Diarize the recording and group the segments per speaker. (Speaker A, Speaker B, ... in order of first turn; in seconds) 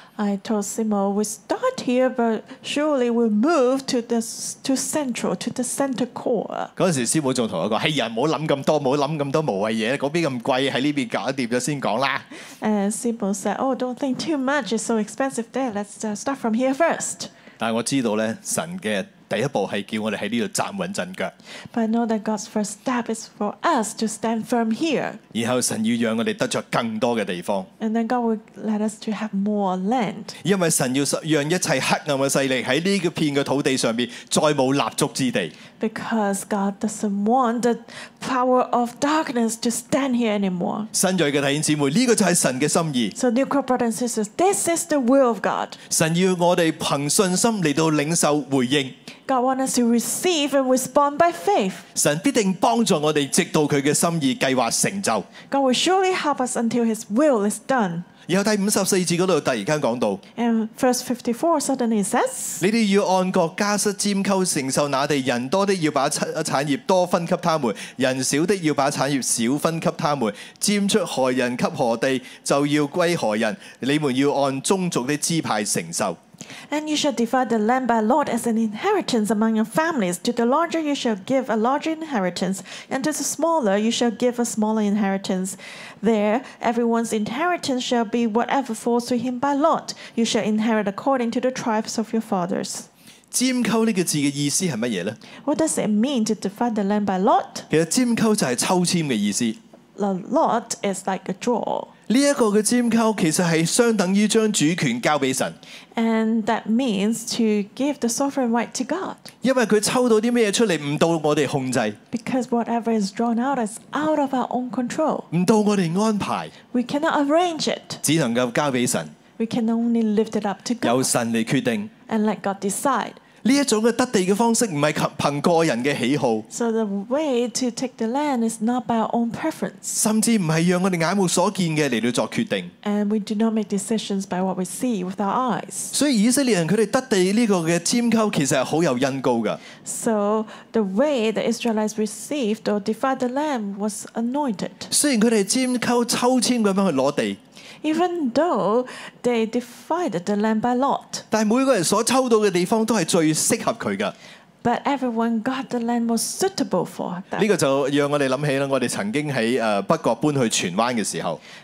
Speaker A: 0.2-6.7, 12.6-17.3, 21.7-25.2, 27.8-30.4, 35.8-40.9, 43.1-45.8, 49.3-51.9, 55.5-58.0, 60.4-62.6, 76.7-92.9, 95.4-97.7, 100.0-101.9, 105.9-109.3, 112.1-115.3, 116.7-118.0, 119.4-121.1, 122.1-123.2, 126.5-129.9, 132.8-135.9, 139.8-144.9, 147.8-151.2, 154.6-157.5
Speaker B: 6.8-12.2, 17.6-21.3, 25.3-27.7, 30.4-35.5, 40.9-43.1, 45.9-48.9, 51.9-55.3, 58.3-60.2, 62.6-76.2, 93.3-95.2, 97.7-99.6, 102.1-105.6, 109.4-112.0, 115.3-116.5, 118.0-119.1, 120.8-121.9, 123.4-126.4, 129.9-132.7, 135.9-139.6, 144.9-147.4, 151.3-154.1, 157.3-161.4